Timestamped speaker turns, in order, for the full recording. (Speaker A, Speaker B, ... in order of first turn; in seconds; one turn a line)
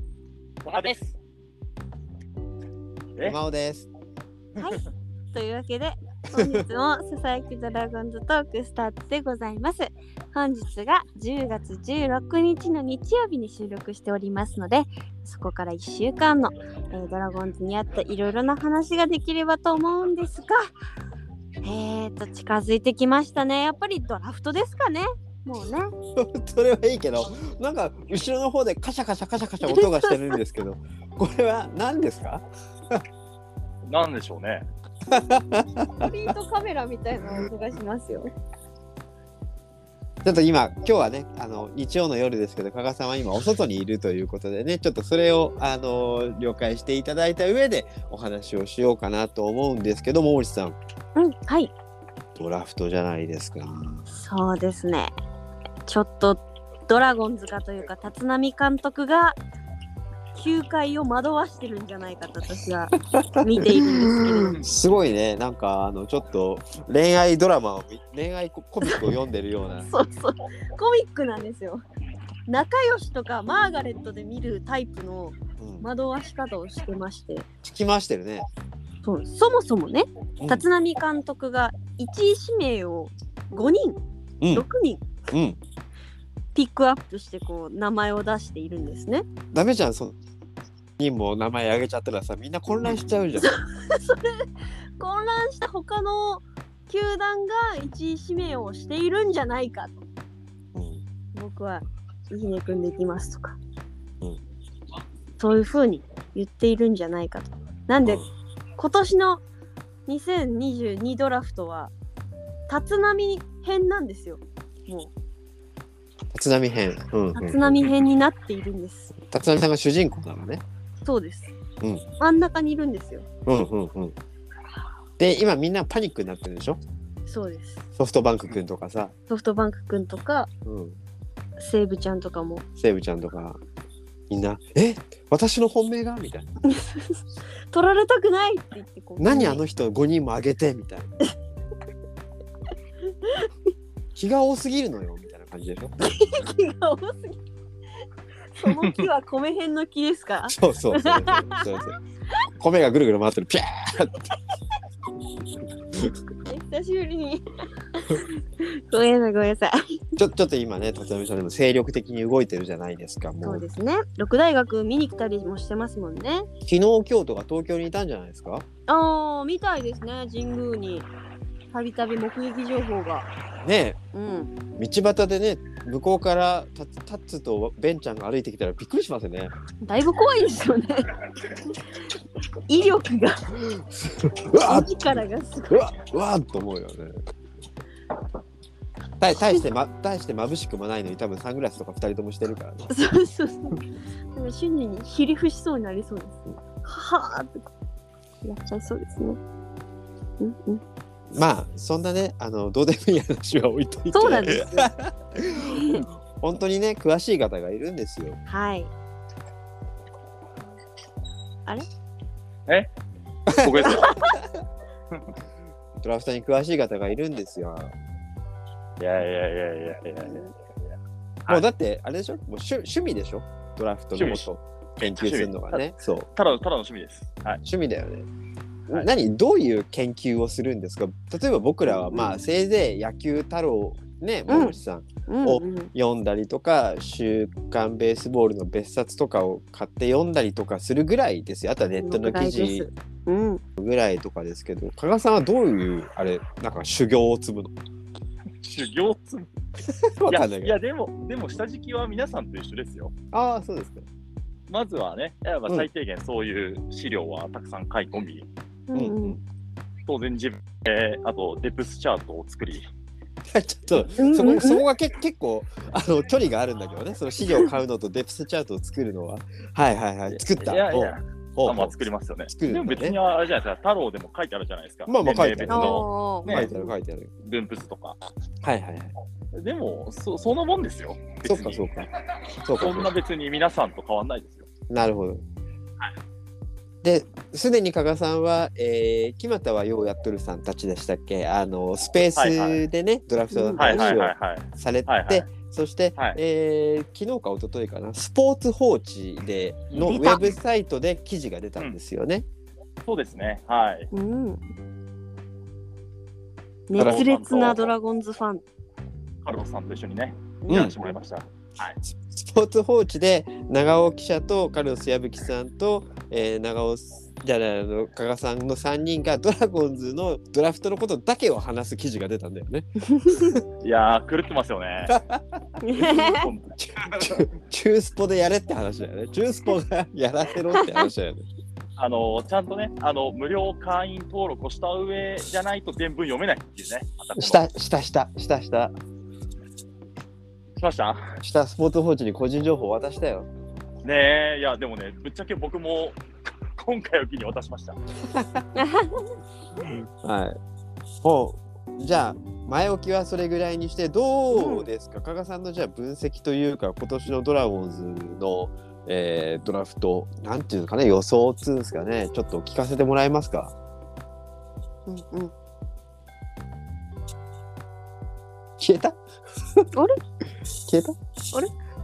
Speaker A: 0.6-1.2
Speaker B: 3.2-3.9
Speaker C: 4.6-4.8
Speaker C: 5.3-20.7
Speaker B: 6.3-6.6
Speaker C: 21.6-25.9
Speaker B: 26.1-33.0
Speaker C: 29.7-30.4
Speaker A: 33.9-34.7
Speaker B: 35.1-36.3
Speaker C: 36.0-38.3
Speaker B: 40.2-50.8
Speaker C: 51.2-51.7
Speaker B: 52.4-54.0
Speaker C: 54.1-55.1
Speaker C: 55.9-59.4
Speaker C: 60.4-64.6
Speaker B: 63.2-69.9
Speaker C: 69.9-71.8
Speaker C: 72.5-77.5
Speaker B: 75.6-75.9
Speaker B: 77.6-78.5
Speaker C: 79.0-84.0
Speaker B: 80.4-80.7
Speaker C: 84.5-85.0
Speaker B: 85.3-85.6
Speaker C: 86.5-89.2
Speaker B: 89.5-90.2
Speaker B: 91.0-93.5
Speaker C: 93.4-94.5
Speaker C: 95.0-100.0
Speaker B: 100.8-101.0
Speaker C: 101.3-103.6
Speaker C: 105.4-108.2
Speaker B: 108.0-108.3
Speaker C: 108.8-109.4
Speaker C: 110.1-111.9
Speaker C: 112.7-115.1
Speaker B: 116.3-117.9
Speaker C: 117.3-119.1
Speaker B: 119.1-120.6
Speaker C: 121.0-121.5
Speaker C: 122.2-123.3
Speaker B: 123.5-124.2
Speaker B: 125.2-126.8
Speaker C: 127.3-127.8
Speaker B: 128.0-129.1
Speaker C: 129.3-130.5
Speaker B: 130.7-131.0
Speaker C: 131.6-132.6
Speaker B: 132.8-133.6
Speaker B: 134.3-136.5
Speaker C: 136.7-137.2
Speaker C: 137.7-139.6
Speaker B: 139.2-141.1
Speaker C: 143.2-143.5
Speaker B: 144.2-145.9
Speaker C: 146.0-147.4
Speaker C: 148.6-151.7
Speaker A: 148.7-149.1
Speaker B: 150.5-152.0
Speaker B: 152.6-154.3
Speaker C: 156.5-157.5
Speaker C: 158.0-159.8
Speaker B: 160.2-163.7
Speaker C: 163.4-166.5
Speaker B: 166.7-168.7
Speaker C: 168.9-171.1
Speaker C: 171.7-173.3
Speaker B: 173.6-174.0
Speaker C: 174.1-174.5
Speaker B: 174.8-179.5
Speaker C: 179.8-181.2
Speaker C: 182.7-183.4
Speaker B: 183.5-187.2
Speaker C: 184.6-185.9
Speaker B: 189.2-192.9
Speaker C: 192.9-193.8
Speaker C: 194.3-197.7
Speaker C: 198.4-199.4
Speaker C: 200.4-200.8
Speaker B: 201.3-208.4
Speaker C: 204.1-204.9
Speaker C: 205.5-206.0
Speaker C: 208.5-208.9
Speaker B: 213.5-214.4
Speaker A: 213.6-214.2
Speaker B: 216.0-217.9
Speaker A: 219.0-220.5
Speaker B: 221.5-226.3
Speaker A: 224.2-224.5
Speaker A: 225.0-227.6
Speaker B: 227.6-228.3
Speaker B: 228.9-242.9
Speaker C: 234.5-235.9
Speaker C: 242.0-243.6
Speaker B: 243.8-247.7
Speaker A: 248.6-249.5
Speaker B: 249.9-250.7
Speaker A: 250.3-253.1
Speaker B: 253.3-254.1
Speaker A: 254.7-258.5
Speaker C: 258.9-259.4
Speaker B: 258.9-259.4
Speaker A: 260.1-262.9
Speaker B: 263.5-272.0
Speaker C: 264.2-264.8
Speaker A: 270.3-276.7
Speaker B: 272.5-273.2
Speaker B: 275.1-277.3
Speaker C: 275.7-276.9
Speaker A: 277.4-278.2
Speaker B: 278.6-279.1
Speaker A: 279.5-281.9
Speaker B: 281.4-282.1
Speaker B: 282.6-283.1
Speaker A: 282.8-284.7
Speaker B: 284.9-285.4
Speaker B: 287.0-302.4
Speaker A: 292.4-292.8
Speaker C: 293.5-294.1
Speaker A: 293.8-295.5
Speaker A: 299.9-300.6
Speaker C: 300.1-300.5
Speaker A: 303.1-304.1
Speaker C: 304.1-304.6
Speaker C: 306.9-308.6
Speaker A: 307.0-307.9
Speaker B: 307.0-307.2
Speaker A: 309.4-312.0
Speaker C: 310.6-311.2
Speaker B: 310.7-310.9
Speaker B: 312.1-323.6
Speaker A: 323.8-325.1
Speaker B: 325.1-325.6
Speaker C: 325.8-326.5
Speaker A: 325.9-327.4
Speaker B: 326.8-331.5
Speaker A: 332.0-337.7
Speaker B: 337.4-338.9
Speaker A: 340.8-341.4
Speaker B: 341.4-343.5
Speaker A: 344.0-348.0
Speaker B: 348.3-348.6
Speaker C: 348.8-349.2
Speaker B: 349.8-350.6
Speaker B: 351.2-363.7
Speaker C: 354.5-354.9
Speaker C: 365.1-365.5
Speaker B: 368.8-369.2
Speaker B: 370.8-371.2